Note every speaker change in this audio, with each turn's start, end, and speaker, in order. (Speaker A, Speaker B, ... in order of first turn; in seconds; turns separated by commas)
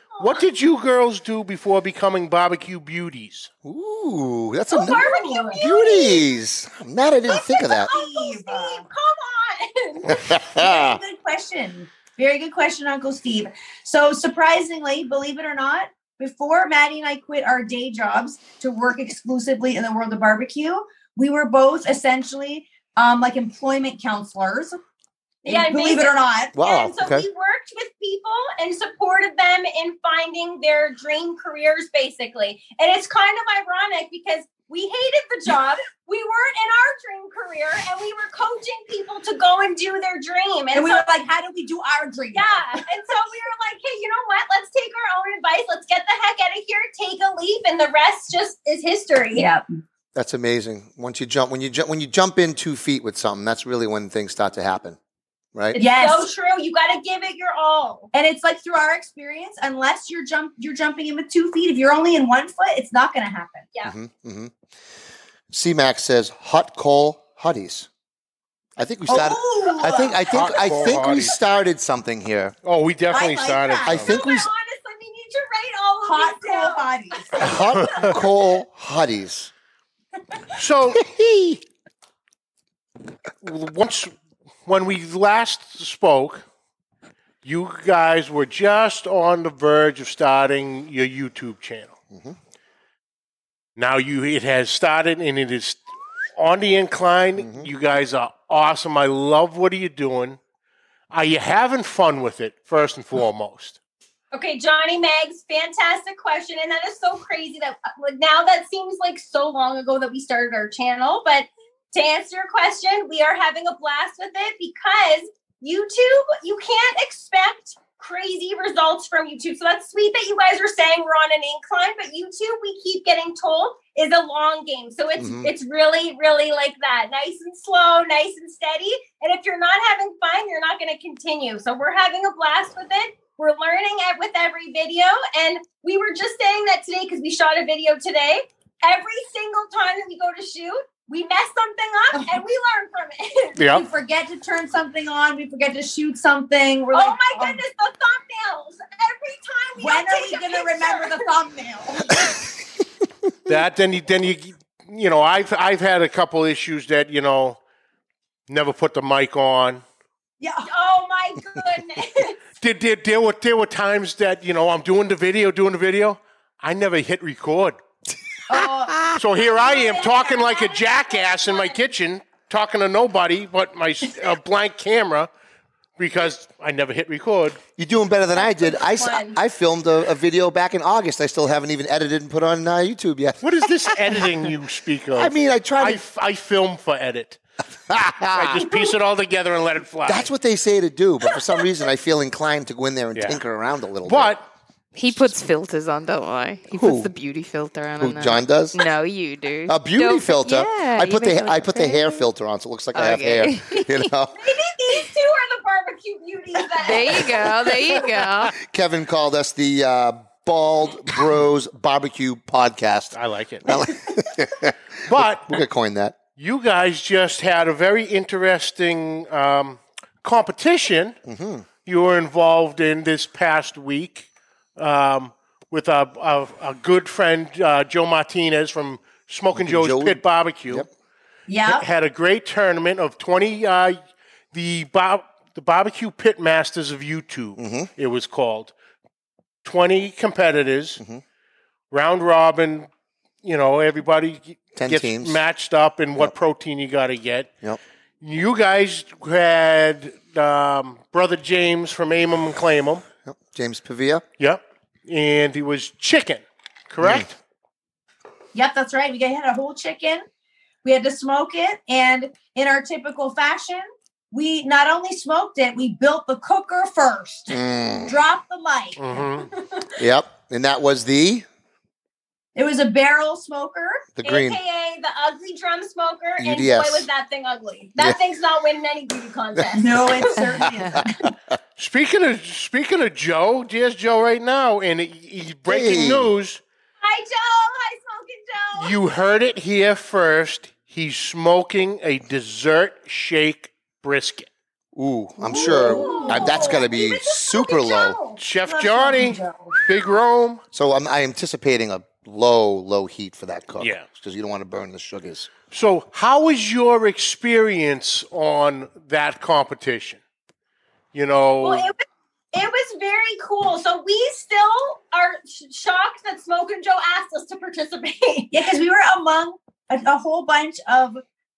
Speaker A: 0.2-3.5, Speaker B: 3.6-7.9, Speaker C: 4.7-6.2, Speaker D: 4.9-5.5, Speaker C: 7.3-10.2, Speaker D: 7.8-8.9, Speaker B: 10.1-11.0, Speaker D: 10.6-24.8, Speaker C: 25.4-41.1, Speaker D: 25.5-26.6, Speaker B: 26.6-27.3, Speaker D: 40.7-42.8, Speaker C: 42.3-49.5, Speaker D: 49.3-49.6, Speaker B: 50.1-55.0, Speaker C: 55.7-58.1, Speaker D: 55.8-56.3, Speaker D: 58.1-63.7, Speaker B: 63.9-64.5, Speaker B: 65.5-67.9, Speaker B: 68.8-72.5, Speaker D: 69.1-70.2, Speaker A: 70.3-71.4, Speaker A: 72.6-74.1, Speaker D: 73.1-74.1, Speaker B: 73.9-74.5, Speaker C: 74.0-77.6, Speaker D: 76.0-77.5, Speaker B: 77.4-79.5, Speaker A: 77.6-78.2, Speaker A: 80.5-81.0, Speaker B: 81.0-81.6, Speaker A: 83.4-84.1, Speaker A: 84.7-86.5, Speaker A: 87.4-91.9, Speaker B: 92.1-92.4, Speaker A: 93.8-95.8, Speaker A: 96.4-100.4, Speaker B: 97.4-97.7, Speaker A: 101.1-103.8, Speaker C: 104.3-143.7, Speaker B: 125.2-125.5, Speaker A: 143.6-143.8, Speaker D: 143.7-147.6, Speaker C: 146.9-151.3, Speaker D: 149.8-152.3, Speaker A: 153.5-157.6, Speaker A: 158.5-159.8, Speaker D: 160.4-160.7, Speaker C: 160.6-162.4, Speaker A: 162.6-167.8, Speaker D: 168.5-169.1, Speaker B: 168.6-169.2, Speaker A: 169.2-175.3, Speaker C: 169.4-171.8, Speaker A: 176.0-177.6, Speaker B: 177.8-184.3, Speaker C: 178.4-179.4, Speaker A: 183.4-187.4, Speaker B: 185.1-186.0, Speaker B: 187.9-188.7, Speaker A: 188.3-190.3, Speaker B: 190.1-194.3, Speaker A: 193.2-193.4, Speaker A: 194.1-194.5, Speaker E: 194.9-202.2, Speaker B: 196.7-197.1, Speaker B: 198.0-198.8, Speaker B: 199.7-204.4, Speaker E: 202.9-204.1, Speaker C: 204.3-207.4, Speaker E: 206.8-208.6, Speaker B: 208.6-216.2, Speaker A: 213.1-213.7, Speaker A: 215.1-215.6, Speaker A: 216.4-221.2, Speaker B: 221.3-221.7, Speaker A: 221.8-230.9, Speaker B: 229.5-230.9, Speaker D: 231.5-231.9, Speaker A: 231.7-234.0, Speaker A: 234.5-238.7, Speaker B: 237.6-237.9, Speaker A: 239.6-241.0, Speaker A: 241.9-242.9, Speaker A: 243.4-247.5, Speaker B: 244.8-245.4, Speaker A: 248.2-253.0, Speaker B: 253.3-254.2, Speaker A: 254.4-257.4, Speaker B: 257.0-257.3, Speaker D: 258.6-260.2, Speaker D: 260.8-269.3, Speaker B: 267.5-268.2, Speaker A: 269.0-269.5, Speaker C: 269.5-270.0, Speaker B: 270.0-271.5, Speaker D: 272.6-274.1, Speaker B: 274.2-274.6, Speaker C: 274.2-280.4, Speaker B: 276.4-277.1, Speaker B: 279.6-281.6, Speaker D: 279.8-281.3, Speaker A: 281.8-286.6, Speaker B: 285.7-286.3, Speaker C: 287.0-289.0, Speaker A: 288.8-294.5, Speaker B: 294.9-298.2, Speaker D: 295.5-296.9, Speaker C: 295.5-298.4, Speaker A: 298.4-300.6, Speaker D: 298.6-299.8, Speaker B: 300.7-305.5, Speaker A: 303.8-304.1, Speaker A: 305.7-310.2, Speaker A: 311.1-311.9, Speaker C: 311.6-318.6, Speaker D: 318.5-321.2